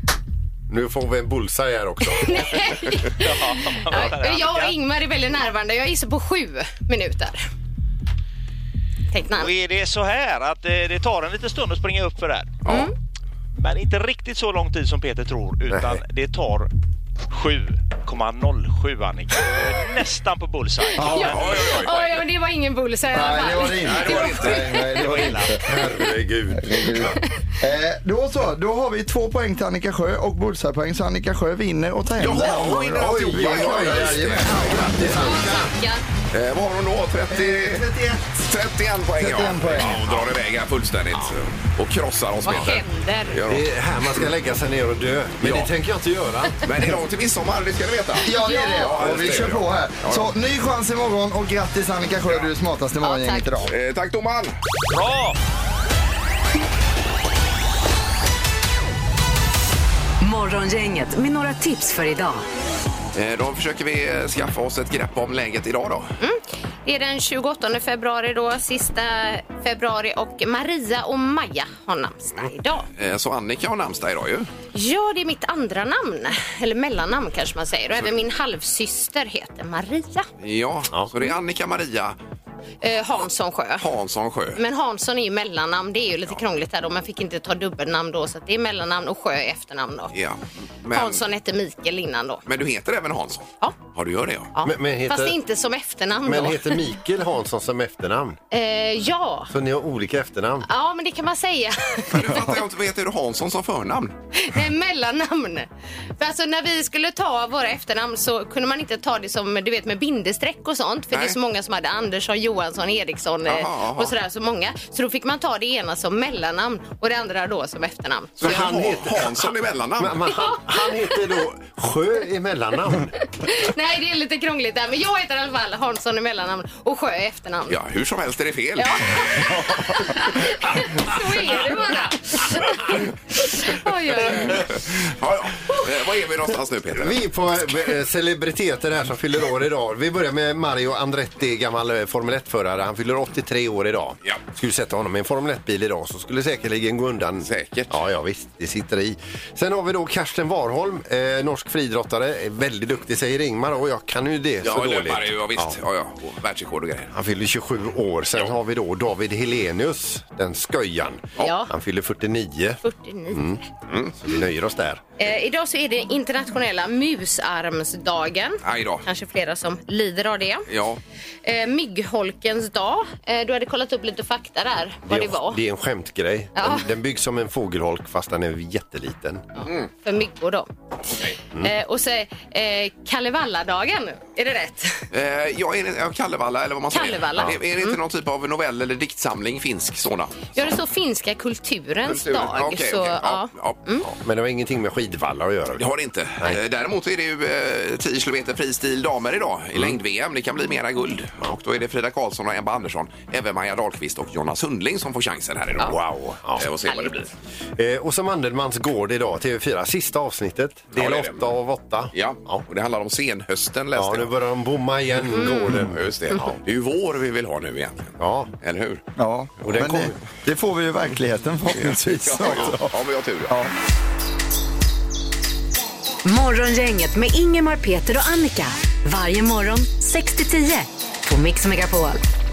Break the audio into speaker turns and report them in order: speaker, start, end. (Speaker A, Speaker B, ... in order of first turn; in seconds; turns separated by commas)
Speaker A: 0.7-2.5, Speaker B: 2.0-7.5, Speaker C: 3.2-4.8, Speaker B: 9.1-9.5, Speaker C: 9.3-12.6, Speaker B: 12.7-12.9, Speaker C: 13.6-16.7, Speaker A: 15.7-16.0, Speaker C: 17.3-21.6, Speaker B: 20.8-25.3, Speaker D: 21.0-21.3, Speaker E: 21.2-22.1, Speaker D: 23.1-25.6, Speaker E: 23.8-24.8, Speaker C: 24.9-25.6, Speaker A: 25.6-27.2, Speaker D: 26.5-35.4, Speaker E: 32.2-34.9, Speaker A: 32.5-35.7, Speaker B: 34.7-36.0, Speaker E: 36.3-37.9, Speaker D: 37.3-38.4, Speaker E: 38.4-43.7, Speaker D: 39.2-40.0, Speaker B: 42.4-43.4, Speaker A: 43.5-46.7, Speaker E: 45.4-45.7, Speaker E: 46.6-50.3, Speaker D: 48.2-53.7, Speaker B: 48.3-49.0, Speaker B: 53.0-53.5, Speaker E: 53.7-54.5, Speaker C: 54.9-55.4, Speaker F: 60.2-62.4, Speaker E: 63.1-66.1, Speaker B: 66.2-72.9, Speaker E: 73.0-74.5, Speaker B: 74.7-80.3, Speaker E: 80.4-82.2, Speaker B: 82.8-83.9, Speaker E: 83.8-84.6, Speaker B: 84.6-90.1, Speaker E: 90.1-91.2, Speaker B: 90.9-92.4, Speaker E: 92.5-94.5, Speaker B: 94.5-96.8, Speaker A: 94.6-95.4, Speaker A: 96.2-98.4, Speaker B: 98.5-99.5, Speaker A: 99.5-100.7, Speaker B: 100.7-102.4, Speaker E: 102.1-104.1, Speaker B: 104.3-118.7, Speaker E: 113.5-114.2, Speaker E: 118.4-120.3, Speaker A: 118.4-119.5, Speaker A: 120.0-123.1, Speaker B: 120.3-121.2, Speaker B: 123.4-127.8, Speaker E: 127.7-129.3, Speaker B: 128.8-134.7, Speaker E: 134.3-137.2, Speaker A: 136.9-155.8, Speaker E: 147.4-147.9, Speaker E: 154.6-157.1, Speaker A: 157.1-163.6, Speaker B: 161.4-161.7, Speaker B: 162.8-163.7, Speaker E: 163.9-164.2, Speaker A: 164.2-165.0, Speaker B: 165.2-170.7, Speaker E: 168.6-169.1, Speaker E: 170.7-171.0, Speaker B: 171.4-175.6, Speaker A: 175.1-179.4, Speaker B: 176.6-176.9, Speaker B: 179.6-180.7, Speaker E: 181.1-181.4, Speaker B: 181.6-185.1, Speaker E: 185.1-190.6, Speaker B: 186.9-188.0, Speaker B: 190.6-194.1, Speaker E: 192.1-193.8, Speaker A: 194.0-195.9, Speaker E: 195.8-206.0, Speaker A: 205.8-206.7, Speaker E: 206.5-207.3, Speaker A: 207.8-212.6, Speaker E: 210.9-211.5, Speaker E: 212.1-214.3, Speaker A: 213.9-216.6, Speaker B: 215.4-215.7, Speaker E: 215.7-219.0, Speaker A: 218.2-218.5, Speaker D: 219.2-223.0, Speaker A: 219.6-220.2, Speaker E: 221.7-223.5, Speaker F: 226.2-232.2